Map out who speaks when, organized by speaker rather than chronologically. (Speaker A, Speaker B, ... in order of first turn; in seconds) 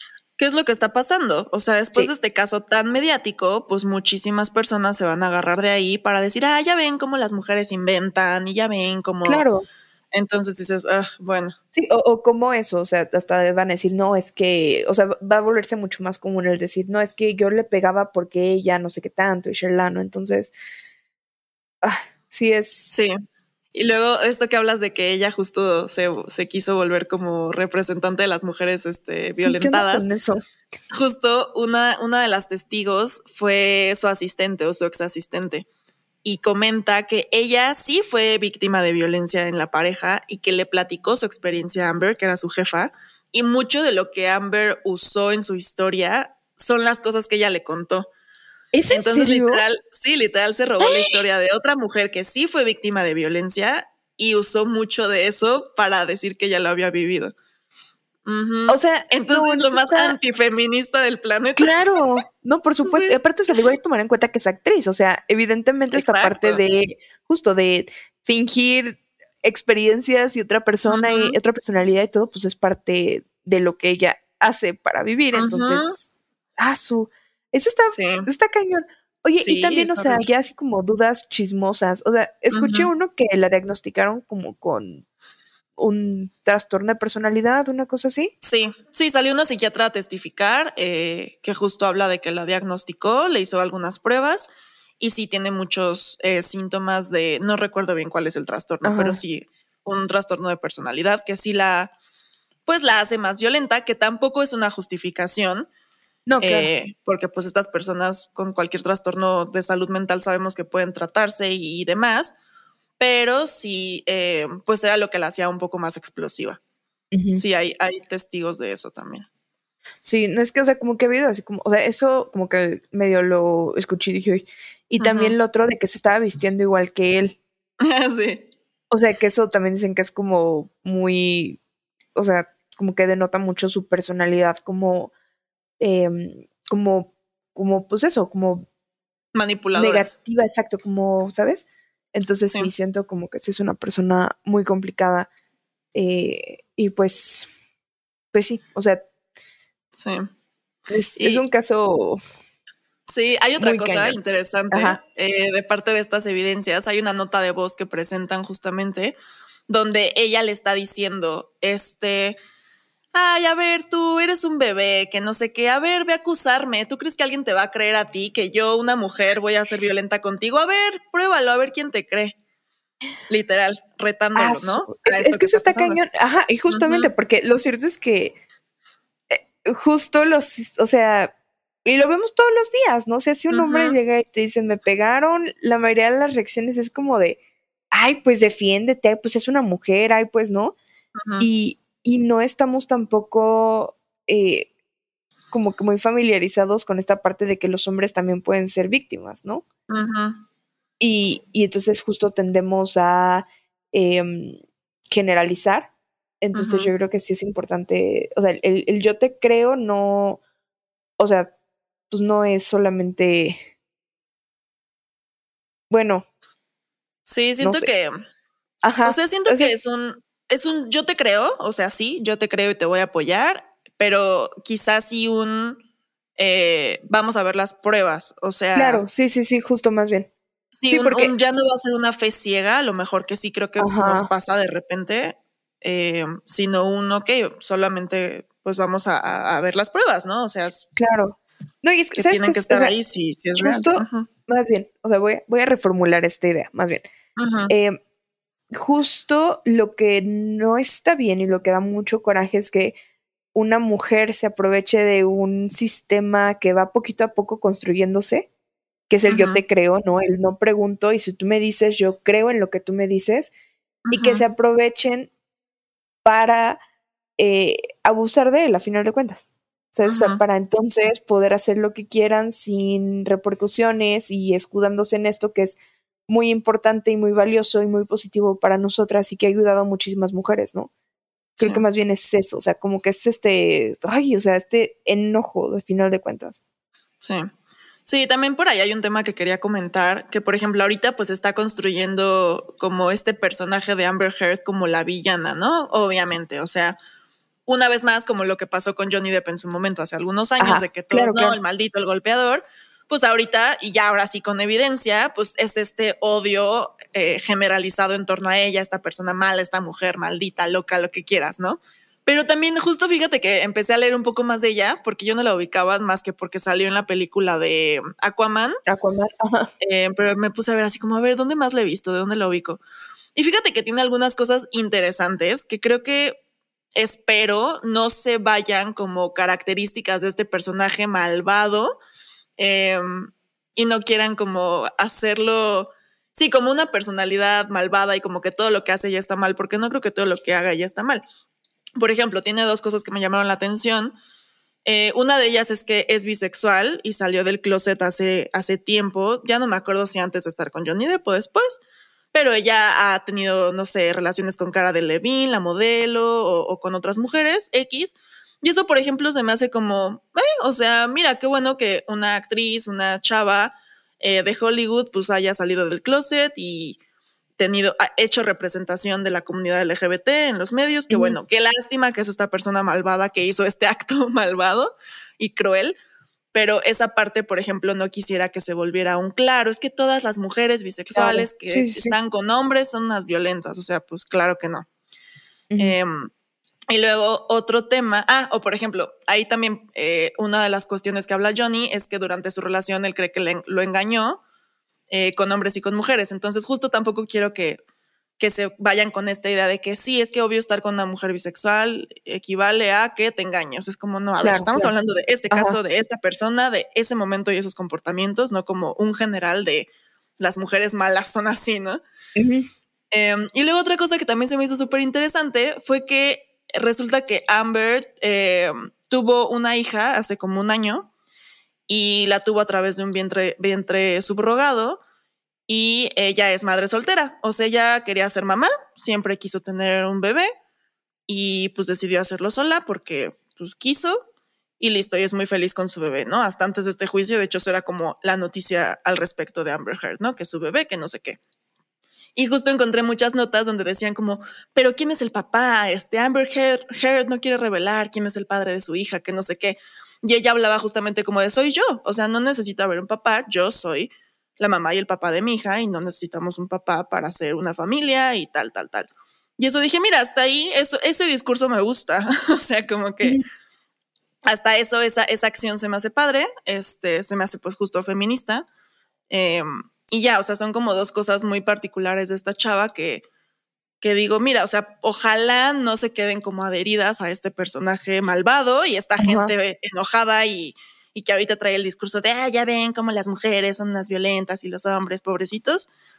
Speaker A: 0.4-9.4, 10.1-11.5, 23.7-30.1, 30.9-35.6, 36.2-48.1, 48.9-57.3, 58.2-61.7, 62.8-63.2, 65.9-66.6, 70.9-71.4, 75.3-76.0, 77.9-78.3, 79.4-80.2, 82.5-82.9, 88.4-94.5, 95.0-101.9, 102.7-105.7, 106.4-112.3, 113.0-116.6, 117.3-119.2, 125.0-125.3, 127.8-128.4, 139.3-140.1, 149.9-150.3, 151.2-151.4, 153.1-159.1, 159.7-162.3, 163.1-172.3, 173.3-176.0, 176.7-177.1, 183.5-184.0, 191.2-191.5, 199.9-200.4, 206.5-206.9, 217.2-218.2, 219.0-225.8, 226.4-229.0, 230.8-240.8, 242.2-244.3, 247.3-247.7, 259.3-259.6, 264.1-264.4, 270.0-270.4, 287.2-287.5, 288.1-297.0, 297.7-318.8, 319.8-322.8, 323.3-326.4, 326.9-332.0, 332.6-341.2, 342.0-344.1, 344.8-351.8, 352.3-367.0, 367.6-375.9, 376.5-384.9, 385.8-386.3, 386.9-394.4, 395.1-397.8, 398.4-412.0, 413.1-421.1, 421.9-425.0, 425.7-430.5, 431.3-434.2, 434.8-441.4, 442.4-463.4, 464.4-468.6, 469.3-473.2, 474.0-485.9
Speaker B: 9.2-9.6, 11.7-20.5, 21.8-22.9, 29.4-30.4, 48.7-49.6, 50.8-51.2, 58.7-60.1, 61.6-85.0, 85.8-88.3, 98.8-99.2, 106.3-106.7, 117.1-117.4, 120.0-127.4, 128.9-131.6, 132.1-135.1, 135.8-138.7, 139.7-145.3, 145.9-147.5, 148.3-149.0, 150.9-152.2, 153.6-154.2, 154.7-155.0, 174.3-178.3, 179.3-181.3, 181.8-187.4, 187.9-190.7, 191.4-194.7, 195.5-199.6, 201.0-205.9, 206.4-210.4, 211.2-211.5, 212.1-213.6, 215.9-216.2, 217.6-217.9, 218.8-219.7, 228.7-230.3, 230.9-231.3, 233.8-234.3, 240.9-242.9, 243.6-247.0, 247.7-248.0, 248.7-252.9, 253.5-258.5, 259.1-263.5, 264.1-265.3, 266.2-266.8, 267.4-275.8, 276.3-280.9, 281.6-286.6, 300.6-301.6, 318.9-319.7, 371.1-371.4, 381.1-382.1, 385.7-386.0, 404.4-404.9, 405.5-405.8, 412.4-412.7, 479.2-479.5